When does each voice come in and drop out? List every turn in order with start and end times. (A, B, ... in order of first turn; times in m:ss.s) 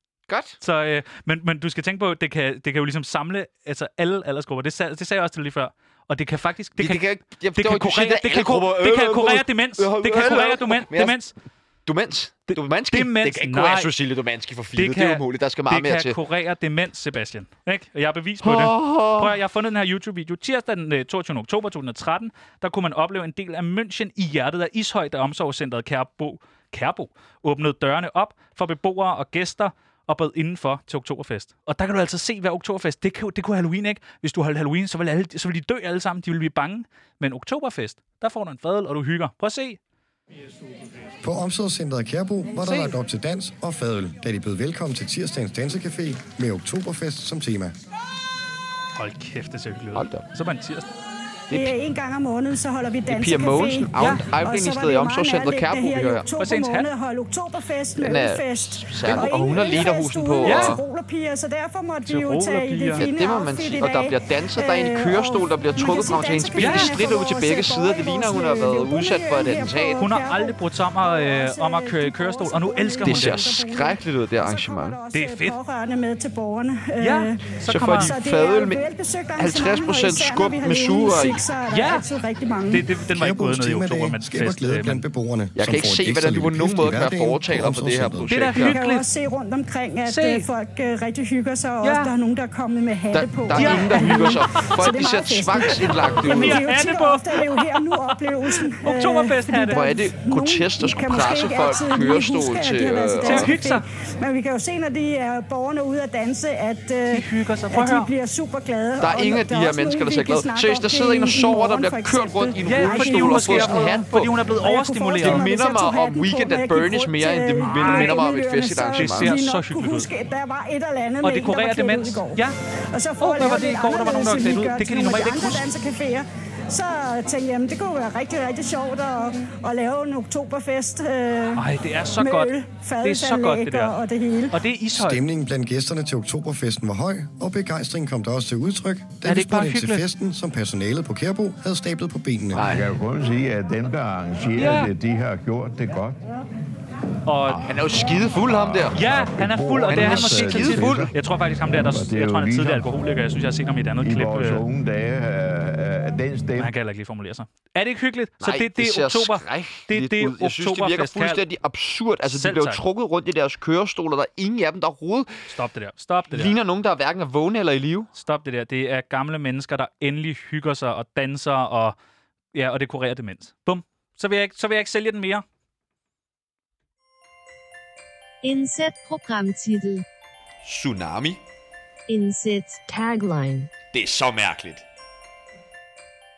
0:00.3-0:00.6 A
0:00.6-0:11.3 B
0:06.8-0:11.2 A
0:11.8-0:16.2 A
0:12.5-0:13.9 B
0:14.8-0:39.8 B
0:18.4-0:19.3 A
0:41.2-0:47.7 C
0:42.6-0:42.9 B
0:49.0-0:50.9 B
0:49.9-0:50.2 A
0:51.5-1:22.9 D
0:53.1-0:56.3 A
0:54.0-0:54.3 B
0:56.4-0:56.9 B
0:58.0-1:00.8 A
0:59.1-0:59.4 B
1:00.4-1:00.7 B
1:02.0-1:03.0 B
1:03.0-1:10.0 A
1:06.6-1:07.0 B
1:10.0-1:13.5 B
1:13.0-1:15.0 A
1:15.1-1:15.6 B
1:17.0-1:18.2 B
1:17.7-1:18.8 A
1:19.4-1:21.5 A
1:21.7-1:22.0 B
1:22.7-1:25.0 B
1:23.1-1:28.4 C
1:25.5-1:28.7 A
1:28.3-1:29.0 B
1:28.5-2:14.6 D
1:30.0-1:30.5 B
1:31.8-1:32.1 B
1:33.1-1:36.6 A
1:33.5-1:34.8 B
1:35.6-1:39.8 B
1:39.7-1:43.5 A
1:43.2-1:43.8 B
1:47.1-1:48.1 B
1:49.0-1:54.4 A
1:52.6-1:55.5 B
1:55.2-1:59.3 A
1:57.6-1:58.2 B
1:59.0-2:00.1 B
2:01.2-2:02.6 B
2:03.2-2:05.7 B
2:11.5-2:14.0 B
2:14.5-2:15.2 B
2:15.0-2:22.6 C
2:19.2-2:20.0 B
2:22.5-2:22.9 A
2:22.5-2:26.3 E
2:24.6-2:24.9 B
2:27.2-2:27.7 B
2:27.4-2:29.0 A
2:28.2-2:31.1 E
2:28.9-2:34.6 B
2:29.9-2:31.1 A
2:31.8-2:33.0 E
2:34.0-2:36.7 E
2:36.6-2:41.4 B
2:38.4-2:45.5 A
2:42.3-2:42.8 B
2:45.5-2:46.6 B
2:46.3-2:48.1 A
2:48.2-2:51.9 B
2:52.5-2:55.4 B
2:58.4-3:00.0 F
3:00.6-3:01.4 A
3:02.1-3:03.7 F
3:03.9-3:04.8 A